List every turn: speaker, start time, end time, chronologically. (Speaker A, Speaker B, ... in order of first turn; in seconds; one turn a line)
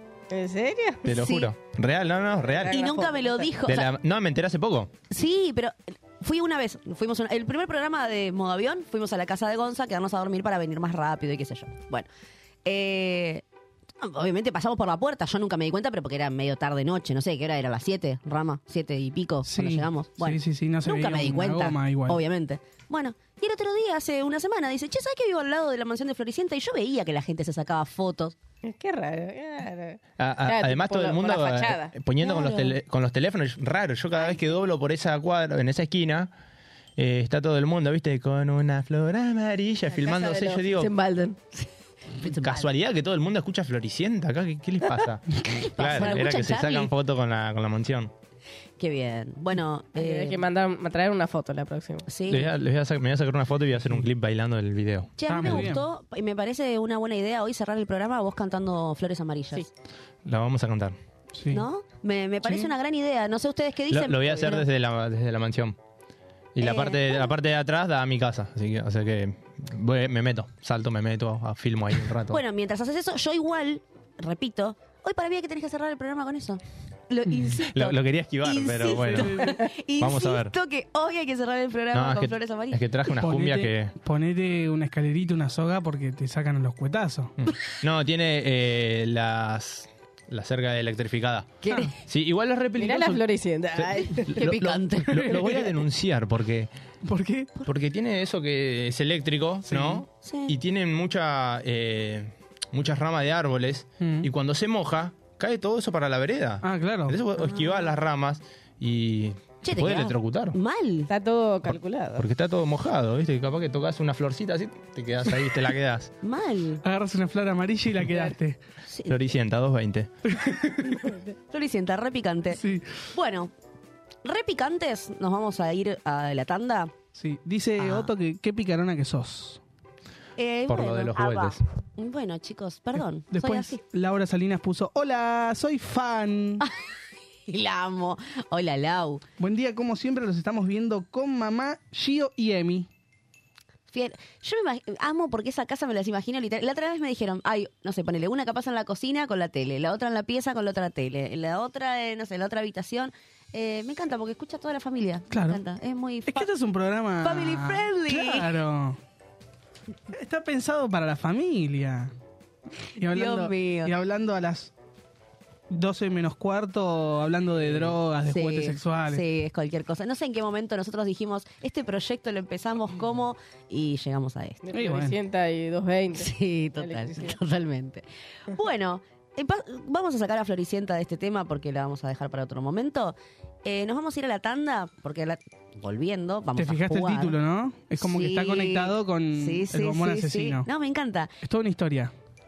Speaker A: 0.3-1.1
Speaker B: 1.0-2.8
Speaker C: 1.2-1.5
Speaker A: 2.5-3.6
Speaker C: 2.7-3.9
Speaker B: 3.7-4.9
Speaker C: 5.1-12.1
Speaker C: 12.7-13.4
Speaker C: 14.0-28.4
Speaker D: 19.5-22.2
Speaker A: 28.6-31.9
Speaker B: 30.2-36.3
Speaker C: 32.2-32.8
Speaker B: 37.0-40.9
Speaker A: 39.9-41.4
Speaker C: 42.2-42.7
Speaker B: 42.3-48.1
Speaker C: 45.4-46.9
Speaker C: 48.8-50.4
Speaker A: 50.0-52.1
Speaker C: 52.1-52.5
Speaker B: 52.3-55.7
Speaker C: 55.2-59.7
Speaker D: 55.3-55.8
Speaker B: 60.2-61.0
Speaker D: 61.4-61.6
Speaker C: 61.5-64.7
Speaker D: 62.4-62.7
Speaker B: 63.9-65.8
Speaker B: 66.5-72.4
Speaker C: 66.6-67.3
Speaker C: 72.3-82.8
Speaker B: 77.5-80.5
Speaker D: 79.1-79.5
Speaker B: 81.9-83.9
Speaker D: 83.2-87.3
Speaker B: 87.4-91.6
Speaker C: 91.6-91.9
Speaker B: 92.1-93.2
Speaker A: 92.8-94.3
Speaker B: 93.8-96.7
Speaker C: 93.8-95.4
Speaker D: 95.2-95.7
Speaker D: 97.0-97.5
Speaker B: 97.7-110.6
Speaker D: 99.7-100.0
Speaker C: 100.2-100.5
Speaker D: 104.0-104.3
Speaker D: 106.6-107.2
Speaker C: 107.4-107.7
Speaker C: 109.6-111.1
Speaker A: 111.1-112.2
Speaker B: 111.7-116.1
Speaker C: 116.2-116.8
Speaker D: 116.8-118.6
Speaker C: 118.9-119.2
Speaker B: 119.1-120.1
Speaker D: 120.3-120.8
Speaker C: 121.5-122.6
Speaker D: 122.6-123.0
Speaker C: 123.1-123.5
Speaker C: 124.2-126.9
Speaker D: 127.2-129.6
Speaker C: 127.8-128.1
Speaker C: 130.4-133.8
Speaker B: 130.7-131.6
Speaker D: 133.3-136.6
Speaker C: 137.5-139.2
Speaker D: 139.4-142.9
Speaker C: 143.9-156.5
Speaker D: 155.3-155.6
Speaker D: 156.3-159.0
Speaker C: 157.2-158.5
Speaker D: 160.1-162.1
Speaker D: 163.0-164.7
Speaker C: 163.1-163.9
Speaker D: 165.7-169.2
Speaker C: 168.3-174.6
Speaker A: 174.6-177.4
Speaker D: 174.7-175.2
Speaker C: 176.2-187.4
Speaker D: 186.6-190.7
Speaker C: 188.0-191.3
Speaker D: 191.4-192.1